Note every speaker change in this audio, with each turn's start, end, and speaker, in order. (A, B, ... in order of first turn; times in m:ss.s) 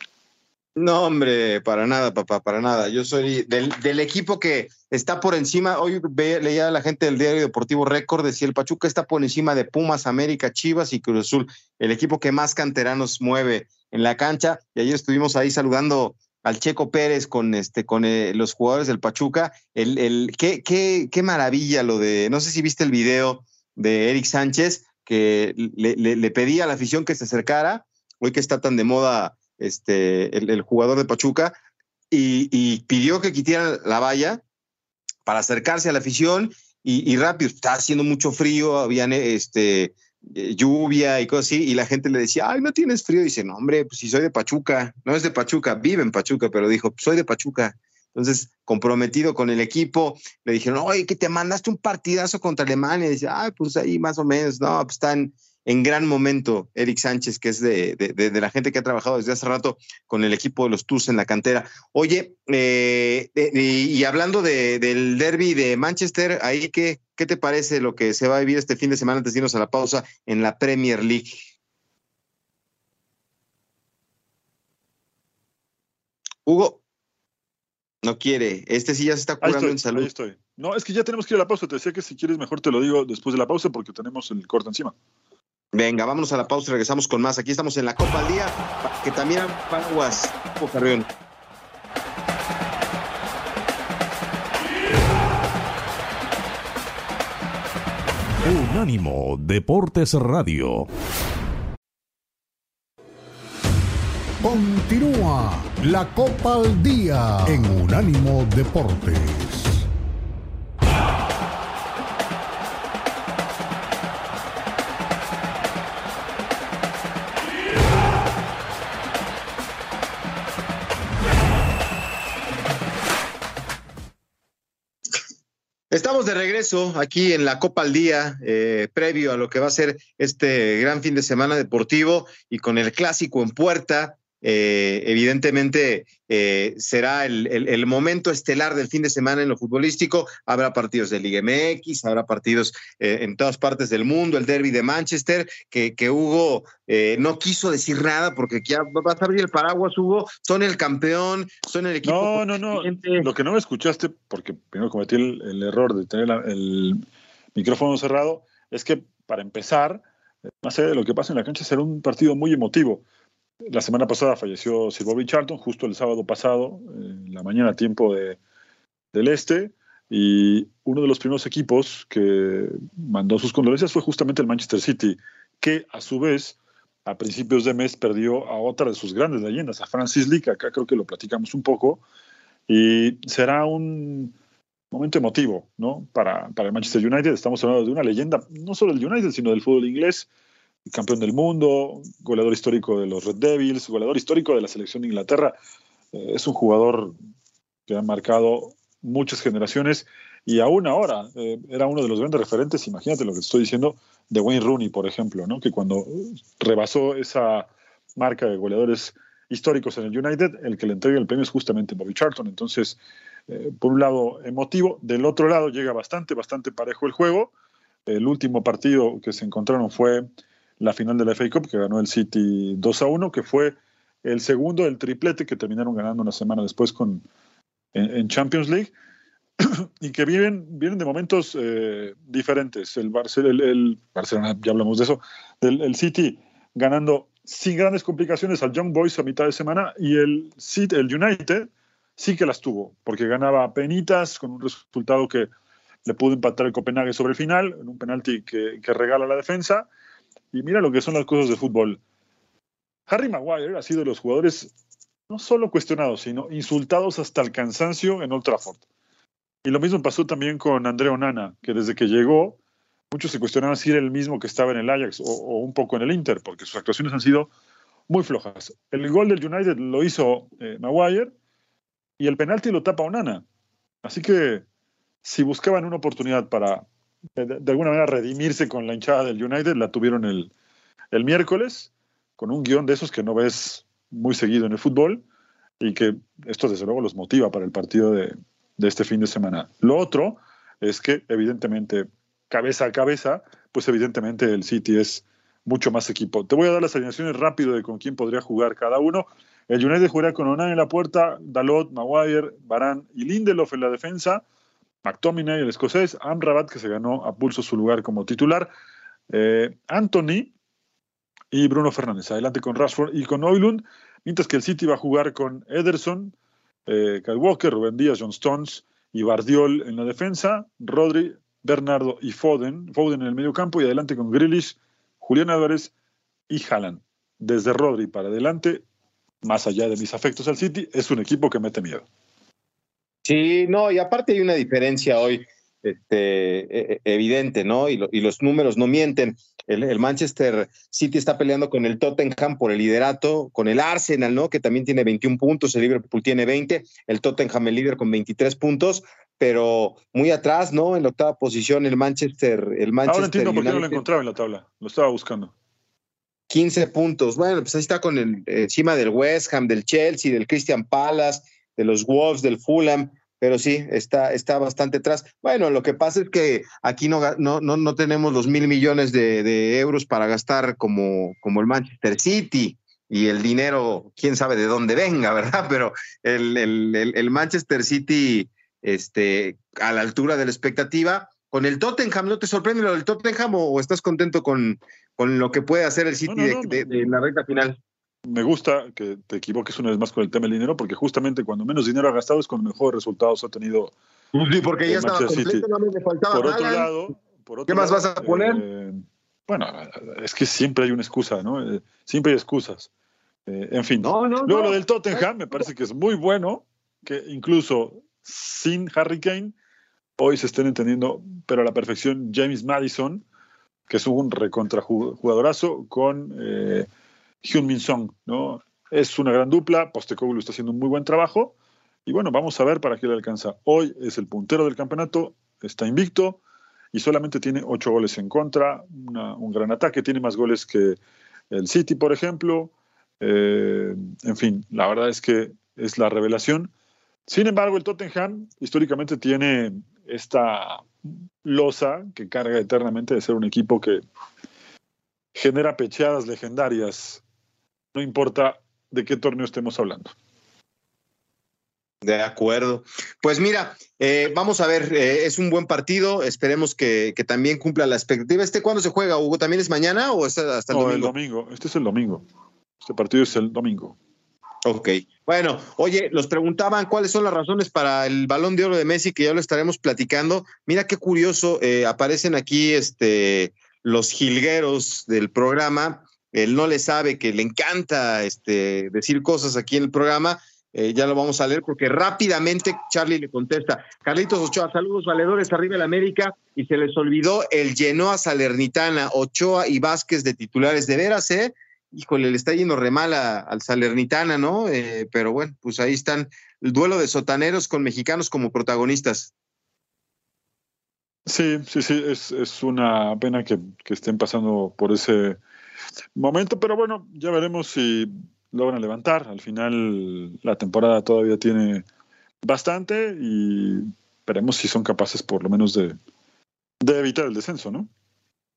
0:00.8-0:31.6 A
0:32.1-0:34.4 A
0:35.3-1:11.4 A
1:16.5-1:16.8 A
1:18.0-1:20.1 A
1:19.4-1:25.0 B
1:25.7-1:31.1 A
1:38.4-1:40.9 C
1:44.4-1:49.9 D
2:05.9-2:33.3 A
2:32.0-2:37.0 B
2:37.6-2:40.0 B
2:40.6-2:43.0 B
2:43.7-2:48.4 B
2:49.1-3:02.0 B
3:02.7-3:04.3 B
3:04.9-3:10.3 B
3:10.9-3:15.6 B
3:16.1-3:17.2 B
3:17.9-3:33.0 B
3:33.5-3:37.5 B
3:38.1-3:40.3 B
3:40.8-3:47.2 B
3:47.9-3:48.9 B
3:49.6-4:05.5 B
4:06.1-4:09.9 B
4:10.5-4:12.0 B
4:13.1-4:14.7 B
4:15.3-4:18.8 B
4:19.6-4:22.6 B
4:23.1-4:27.5 B
4:28.1-4:31.3 B
4:32.2-4:33.4 B
4:34.0-4:34.6 B
4:35.2-4:36.8 B
4:37.4-4:40.5 B
4:41.1-4:45.2 B
4:45.8-5:04.4 B
5:05.0-5:08.7 B
5:09.3-5:10.5 B
5:11.5-5:16.3 B
5:16.9-5:25.9 B
5:26.5-5:28.8 B
5:29.4-5:32.0 B
5:33.3-5:54.0 A
5:53.1-5:55.5 B
5:56.5-6:27.8 A
6:26.3-6:27.2 B
6:28.3-6:33.9 B
6:34.3-6:36.9 A
6:34.9-6:35.7 B
6:36.3-6:42.9 B
6:37.7-6:38.6 A
6:43.5-6:49.5 B
6:44.0-6:45.3 A
6:50.2-6:53.2 B
6:53.9-6:56.9 B
6:57.4-7:01.5 B
7:02.1-7:06.4 B
7:06.9-7:11.0 B
7:11.5-7:16.7 B
7:17.3-7:20.9 B
7:21.4-7:24.0 B
7:25.4-7:27.2 B
7:27.9-7:30.1 B
7:32.0-7:41.1 A
7:40.7-7:42.2 B
7:42.8-7:44.0 B
7:44.6-8:19.3 A
8:21.3-8:25.4 B
8:26.2-8:31.8 B
8:32.4-8:36.0 B
8:36.8-8:37.9 B